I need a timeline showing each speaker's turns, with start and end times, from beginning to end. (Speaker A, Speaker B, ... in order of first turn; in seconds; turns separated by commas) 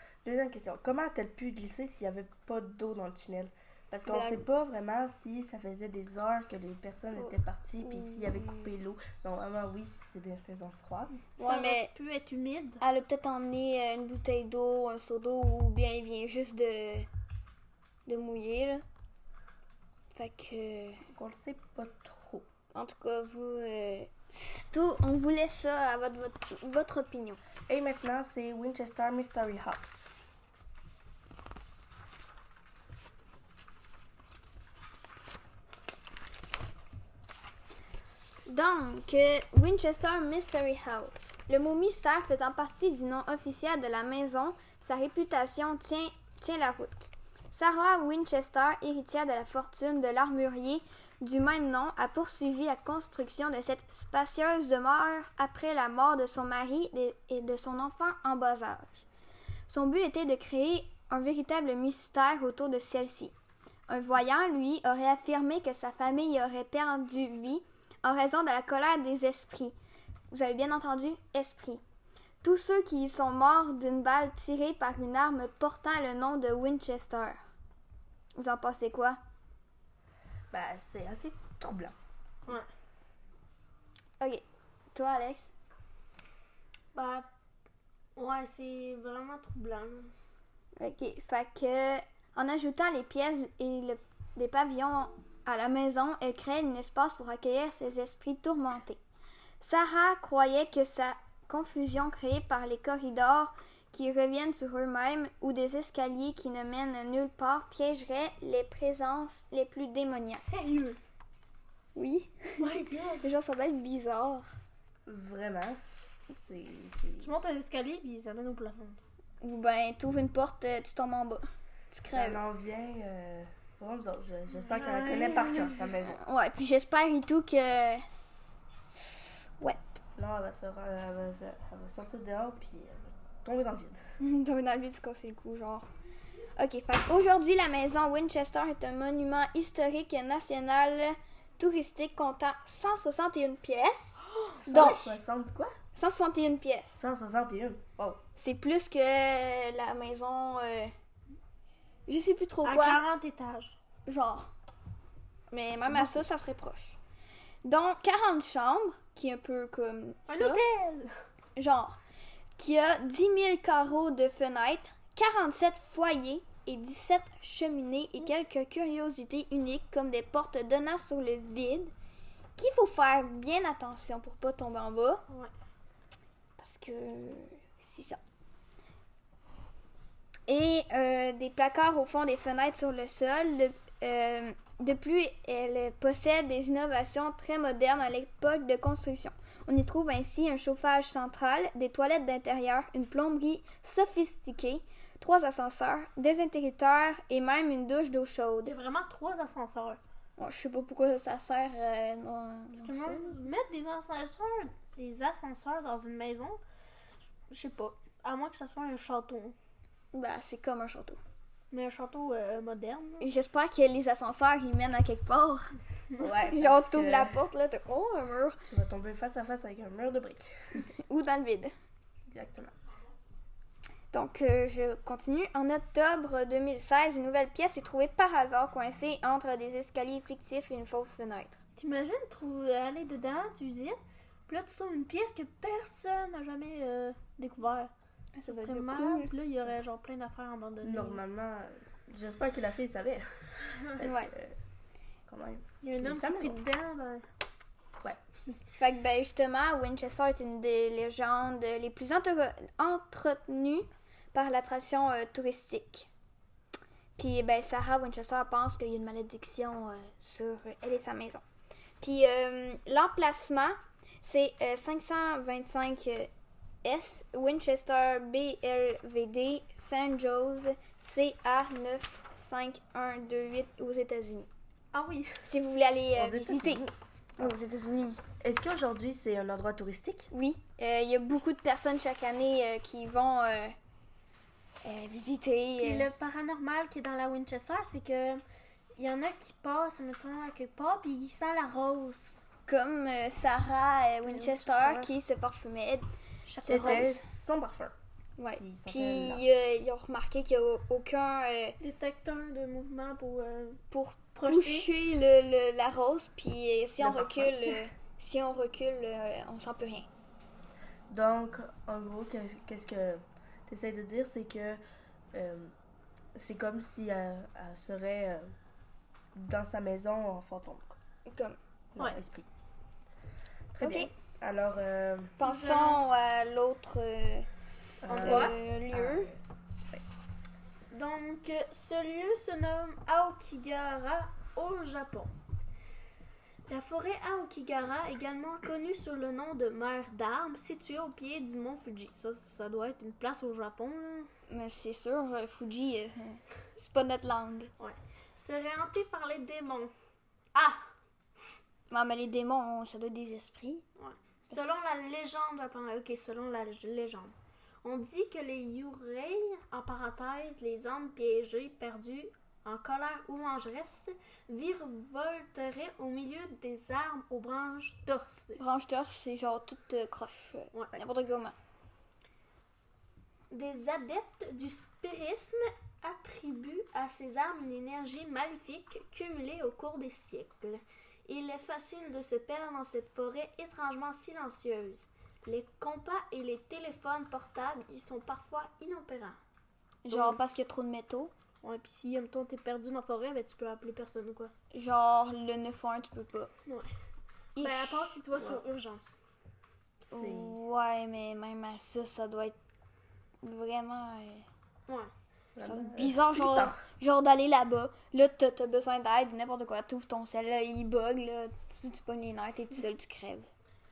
Speaker A: 0.2-11.1, Speaker B: 4.0-4.5, Speaker B: 7.2-8.7, Speaker C: 11.2-12.8, Speaker B: 11.4-11.9, Speaker B: 12.8-17.1, Speaker B: 18.1-18.8, Speaker B: 20.1-21.0, Speaker A: 21.1-22.4, Speaker B: 22.7-27.4, Speaker A: 27.7-30.1, Speaker B: 38.5-59.0, Speaker B: 59.7-63.3, Speaker B: 63.9-69.7, Speaker B: 70.3-71.8, Speaker B: 72.4-77.4, Speaker B: 78.3-79.2, Speaker A: 80.5-81.9, Speaker B: 84.2-85.5, Speaker C: 86.9-87.2, Speaker C: 88.2-90.1, Speaker B: 90.8-99.0, Speaker B: 99.6-110.4, Speaker C: 110.4-111.0, Speaker B: 112.0-112.7, Speaker C: 112.6-113.2, Speaker B: 113.2-114.5, Speaker A: 115.1-117.3, Speaker C: 117.2-119.0, Speaker B: 119.4-122.4, Speaker A: 122.1-126.2, Speaker C: 124.6-125.9, Speaker B: 126.0-128.0, Speaker A: 130.2-134.0, Speaker B: 134.2-135.9, Speaker B: 136.6-145.1, Speaker A: 144.6-145.7, Speaker C: 144.7-145.0, Speaker B: 145.9-147.0, Speaker A: 146.9-148.2, Speaker B: 148.3-150.9, Speaker B: 152.1-153.0, Speaker C: 152.6-153.8, Speaker B: 154.1-154.5, Speaker B: 155.5-157.0, Speaker B: 157.6-160.6, Speaker C: 160.3-161.1, Speaker B: 161.6-162.0, Speaker B: 162.6-171.9, Speaker B: 172.6-175.2, Speaker B: 176.6-178.2, Speaker B: 180.5-198.7, Speaker C: 198.6-200.0, Speaker B: 200.4-203.3, Speaker C: 202.8-206.6, Speaker C: 207.5-209.5, Speaker B: 210.1-211.2, Speaker C: 211.7-213.3, Speaker B: 213.2-215.7, Speaker A: 216.2-217.4, Speaker B: 216.5-218.6, Speaker A: 218.6-220.8, Speaker B: 220.7-221.7, Speaker A: 222.3-222.7, Speaker B: 224.1-231.6, Speaker C: 231.8-237.9, Speaker B: 238.4-239.7, Speaker C: 238.5-241.2, Speaker A: 240.8-244.6, Speaker B: 244.0-244.3, Speaker A: 245.3-246.6, Speaker C: 245.8-247.2, Speaker B: 248.8-256.1, Speaker B: 257.2-261.4, Speaker B: 262.0-266.3, Speaker B: 266.8-274.5, Speaker C: 274.9-275.4, Speaker B: 275.4-276.8, Speaker A: 276.1-276.9, Speaker B: 277.4-278.2, Speaker A: 278.4-280.3, Speaker B: 280.3-283.7, Speaker B: 284.8-286.1, Speaker C: 285.8-288.4, Speaker C: 289.0-292.4, Speaker B: 292.7-296.1, Speaker C: 294.3-295.1, Speaker C: 296.5-297.1, Speaker B: 296.6-297.2, Speaker A: 296.6-297.9, Speaker B: 298.4-301.8, Speaker A: 298.5-299.4, Speaker C: 301.8-303.8, Speaker B: 303.9-310.1, Speaker C: 304.3-304.9, Speaker A: 307.0-307.8, Speaker A: 311.1-314.8, Speaker A: 315.3-315.7, Speaker A: 316.3-318.5, Speaker A: 319.3-321.0, Speaker B: 321.3-321.6, Speaker A: 321.9-322.5, Speaker A: 323.7-325.4, Speaker B: 323.8-324.1, Speaker B: 325.4-327.5, Speaker C: 325.4-326.0, Speaker A: 328.0-329.4, Speaker C: 328.1-328.5, Speaker B: 328.1-329.3, Speaker C: 330.9-335.3, Speaker C: 336.7-344.3, Speaker B: 344.5-347.7, Speaker C: 347.8-349.9, Speaker C: 350.5-350.9, Speaker B: 351.9-353.8, Speaker C: 354.0-368.6, Speaker B: 368.6-371.5, Speaker C: 373.5-389.4, Speaker B: 390.0-391.3, Speaker C: 390.1-390.4, Speaker C: 391.6-394.5, Speaker B: 394.7-396.5, Speaker B: 397.6-398.1, Speaker C: 397.6-399.1, Speaker A: 398.3-398.6, Speaker A: 400.1-400.6, Speaker B: 400.1-402.6, Speaker B: 403.4-404.4, Speaker A: 405.6-406.8, Speaker B: 405.6-413.5